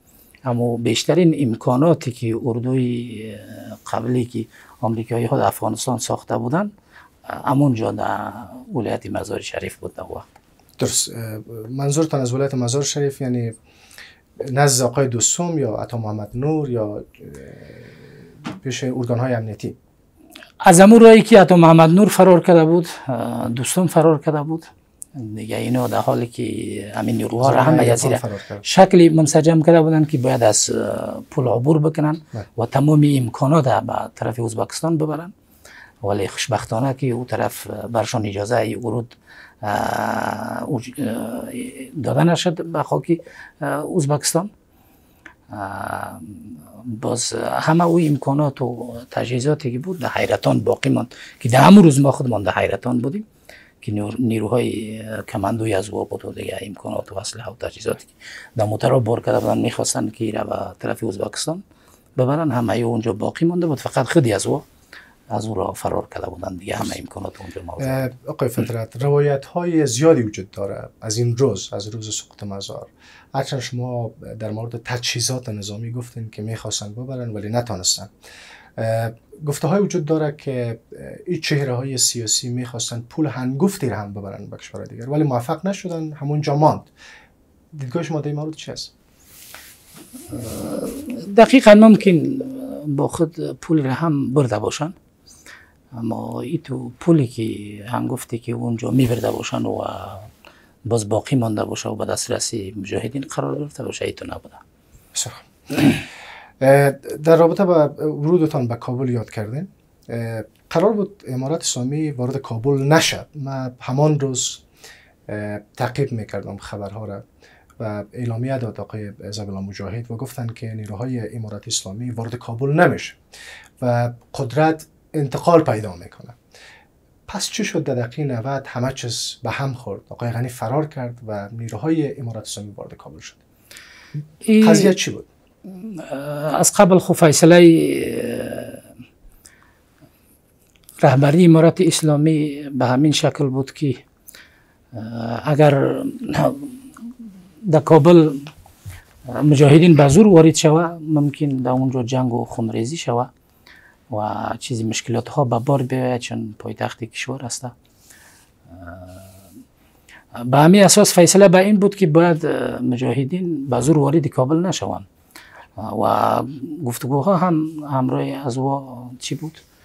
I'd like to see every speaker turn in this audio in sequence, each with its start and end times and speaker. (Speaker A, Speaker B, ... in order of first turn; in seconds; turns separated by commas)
Speaker A: 0.5-6.7, Speaker A: 7.3-10.3, Speaker B: 10.8-13.6, Speaker B: 14.4-19.8, Speaker A: 20.6-35.3, Speaker B: 27.4-28.6, Speaker A: 36.0-44.5, Speaker A: 45.5-53.3, Speaker A: 53.8-61.6, Speaker A: 62.2-64.7, Speaker A: 65.3-68.1, Speaker B: 67.8-78.1, Speaker B: 78.8-86.9, Speaker B: 87.7-88.9, Speaker A: 90.3-94.9, Speaker A: 95.9-100.3, Speaker A: 100.9-104.6, Speaker B: 105.1-106.0, Speaker B: 106.6-114.6, Speaker B: 115.3-117.2, Speaker B: 117.8-123.2, Speaker B: 123.8-126.4, Speaker B: 127.3-133.4, Speaker A: 134.4-134.9, Speaker B: 134.6-135.3, Speaker A: 135.7-138.8, Speaker A: 141.0-144.0, Speaker A: 144.9-146.8, Speaker A: 147.6-148.5, Speaker A: 149.3-153.3, Speaker A: 154.1-157.7, Speaker A: 158.7-159.3, Speaker A: 160.4-165.1, Speaker A: 165.8-169.6